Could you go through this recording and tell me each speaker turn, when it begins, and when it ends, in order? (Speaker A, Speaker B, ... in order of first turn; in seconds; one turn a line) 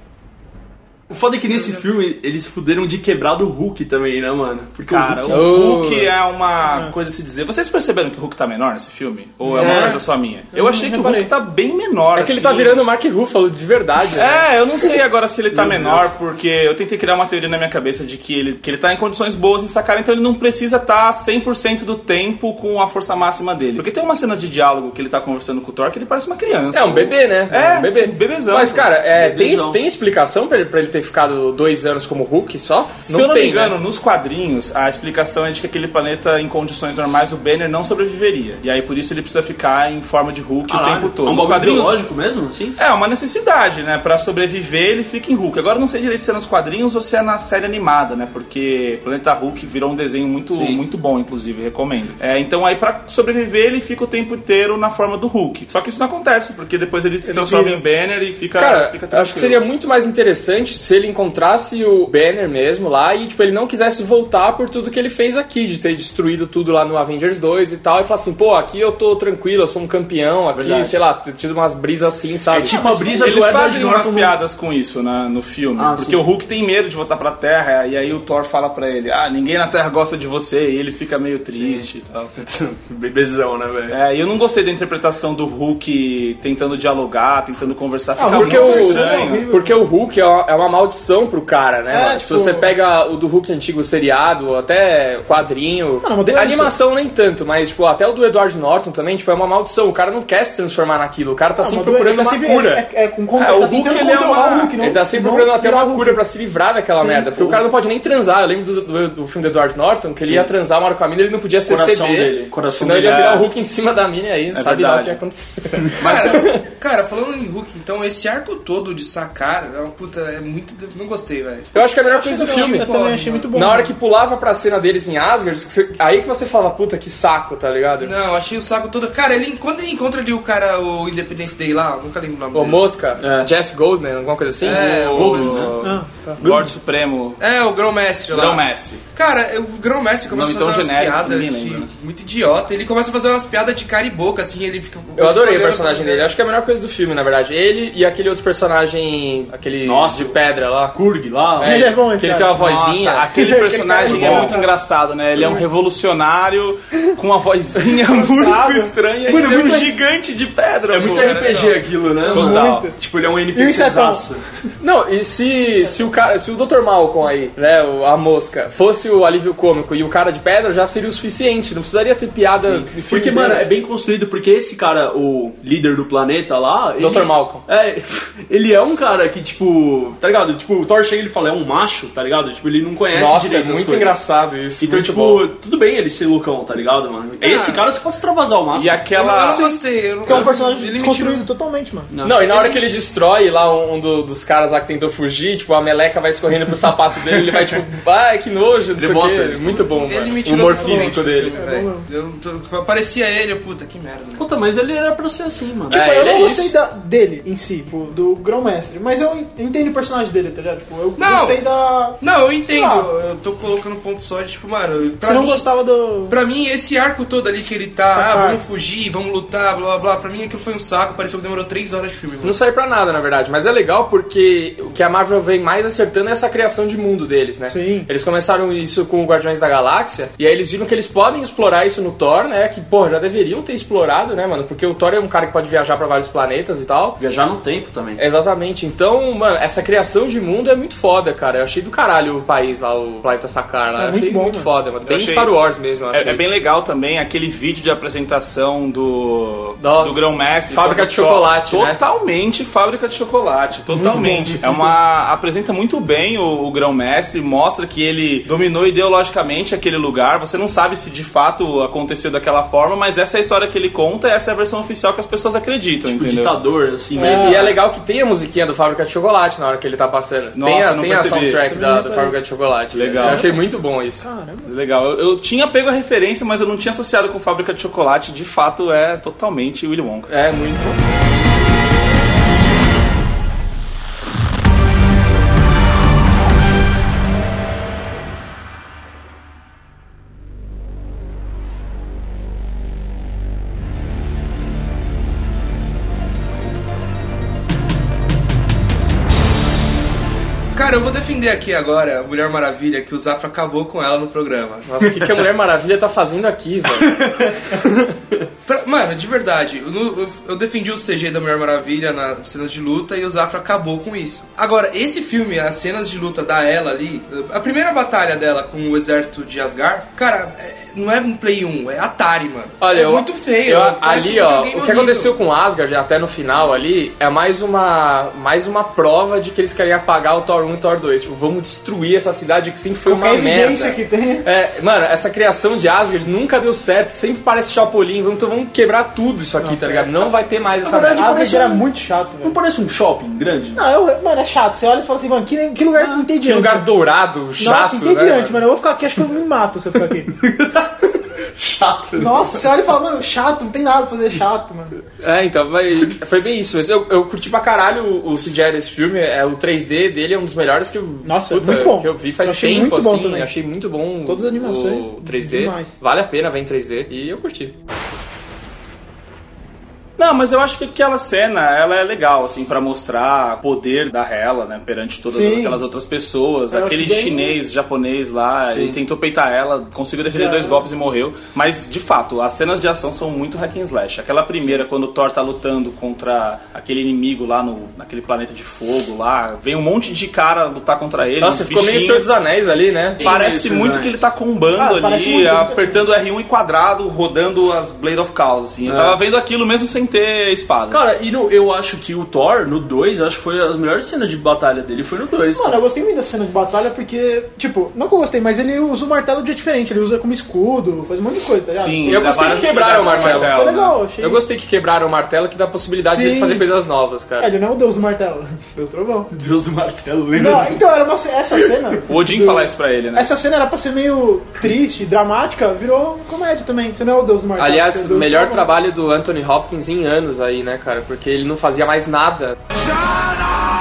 Speaker A: 1.1-5.5
Speaker B: 4.9-12.8
Speaker C: 5.3-6.1
Speaker D: 6.6-7.0
Speaker A: 9.5-10.0
Speaker D: 9.6-9.9
Speaker D: 10.5-11.3
Speaker C: 12.1-14.4
Speaker B: 14.2-28.9
Speaker A: 15.5-16.1
Speaker C: 26.7-33.8
Speaker A: 29.1-29.8
Speaker B: 33.0-42.0
Speaker A: 40.7-42.8
Speaker B: 42.8-59.6
Speaker A: 50.5-50.8
Speaker D: 57.2-57.8
Speaker C: 58.6-73.1
Speaker A: 70.5-71.0
Speaker A: 72.5-74.3
Speaker B: 72.5-82.4
Speaker A: 75.8-76.2
Speaker A: 81.5-84.0
Speaker B: 83.9-89.4
Speaker D: 88.2-89.8
Speaker C: 88.3-102.8
Speaker D: 91.9-92.7
Speaker D: 96.0-96.7
Speaker D: 101.6-106.2
Speaker B: 103.3-104.9
Speaker C: 104.8-116.6
Speaker D: 106.9-107.6
Speaker A: 110.2-110.5
Speaker A: 111.7-113.5
Speaker B: 112.9-113.5
Speaker B: 114.5-115.2
Speaker B: 115.9-116.5
Speaker E: 116.0-123.5
Speaker C: 121.7-122.9
Speaker D: 122.1-123.9
Speaker C: 123.5-128.1
Speaker E: 128.0-132.8
Speaker C: 132.5-135.3
Speaker A: 133.2-133.5
Speaker E: 134.6-135.7
Speaker B: 134.7-137.4
Speaker A: 135.1-135.8
Speaker D: 135.8-136.4
Speaker A: 136.4-136.7
Speaker E: 137.4-146.3
Speaker B: 138.3-139.0
Speaker B: 140.3-141.9
Speaker C: 145.2-150.9
Speaker A: 149.8-150.4
Speaker A: 150.9-151.9
Speaker C: 151.6-153.3
Speaker D: 151.6-152.6
Speaker B: 152.6-162.9
Speaker D: 153.3-154.7
Speaker A: 154.0-154.6
Speaker D: 157.9-159.8
Speaker A: 159.2-159.9
Speaker A: 160.9-164.4
Speaker D: 162.2-163.0
Speaker D: 163.5-164.2
Speaker C: 164.8-173.7
Speaker D: 165.7-166.1
Speaker A: 172.6-184.2
Speaker C: 177.0-177.6
Speaker C: 183.1-185.5
Speaker A: 184.8-189.0
Speaker D: 187.4-187.8
Speaker B: 188.7-189.7
Speaker D: 189.2-192.1
Speaker E: 189.2-191.4
Speaker A: 190.2-190.5
Speaker A: 192.1-192.8
Speaker C: 192.2-201.6
Speaker A: 199.0-200.1
Speaker E: 199.9-204.5
Speaker D: 201.5-202.1
Speaker A: 204.3-206.1
Speaker C: 205.9-206.7
Speaker D: 205.9-213.1
Speaker E: 211.2-211.6
Speaker E: 212.2-215.6
Speaker D: 215.2-216.3
Speaker E: 216.3-222.6
Speaker D: 218.1-218.6
Speaker C: 222.4-237.2
Speaker D: 227.7-228.1
Speaker A: 237.2-238.2
Speaker C: 238.2-246.4
Speaker D: 244.0-244.7
Speaker B: 245.1-245.5
Speaker B: 246.1-266.5
Speaker C: 249.8-252.0
Speaker D: 253.9-254.9
Speaker A: 266.0-267.8
Speaker C: 267.1-274.2
Speaker D: 267.2-267.6
Speaker B: 270.5-271.6
Speaker D: 271.6-272.4
Speaker B: 272.9-273.6
Speaker D: 273.1-274.7
Speaker B: 274.6-280.3
Speaker C: 280.3-281.0
Speaker E: 300.7-304.9
Speaker C: 304.9-307.1
Speaker A: 307.0-307.8
Speaker E: 308.7-325.4
Speaker C: 322.8-341.4
Speaker D: 333.1-334.5
Speaker D: 339.6-340.3
Speaker A: 340.8-341.9
Speaker D: 341.1-342.6
Speaker A: 342.4-343.8
Speaker D: 343.7-346.9
Speaker A: 345.9-346.2
Speaker C: 346.4-348.6
Speaker D: 347.6-350.3
Speaker A: 350.4-352.7
Speaker D: 352.1-354.9
Speaker C: 355.2-367.7
Speaker D: 361.2-363.5
Speaker D: 364.2-365.9
Speaker B: 370.2-392.3
Speaker D: 375.3-375.8
Speaker D: 376.7-377.6
Speaker A: 378.7-379.0
Speaker D: 380.3-380.9
Speaker C: 391.4-393.3
Speaker A: 393.2-394.3
Speaker B: 393.2-401.0
Speaker D: 394.7-396.0
Speaker A: 398.8-399.2
Speaker A: 400.9-405.8
Speaker D: 405.5-414.4
Speaker B: 411.7-414.0
Speaker C: 412.1-413.6
Speaker C: 414.2-417.5
Speaker D: 416.0-416.7
Speaker D: 417.4-419.3
Speaker A: 419.3-420.8
Speaker D: 420.3-428.7
Speaker A: 421.5-422.0
Speaker B: 422.1-423.3
Speaker C: 427.6-432.6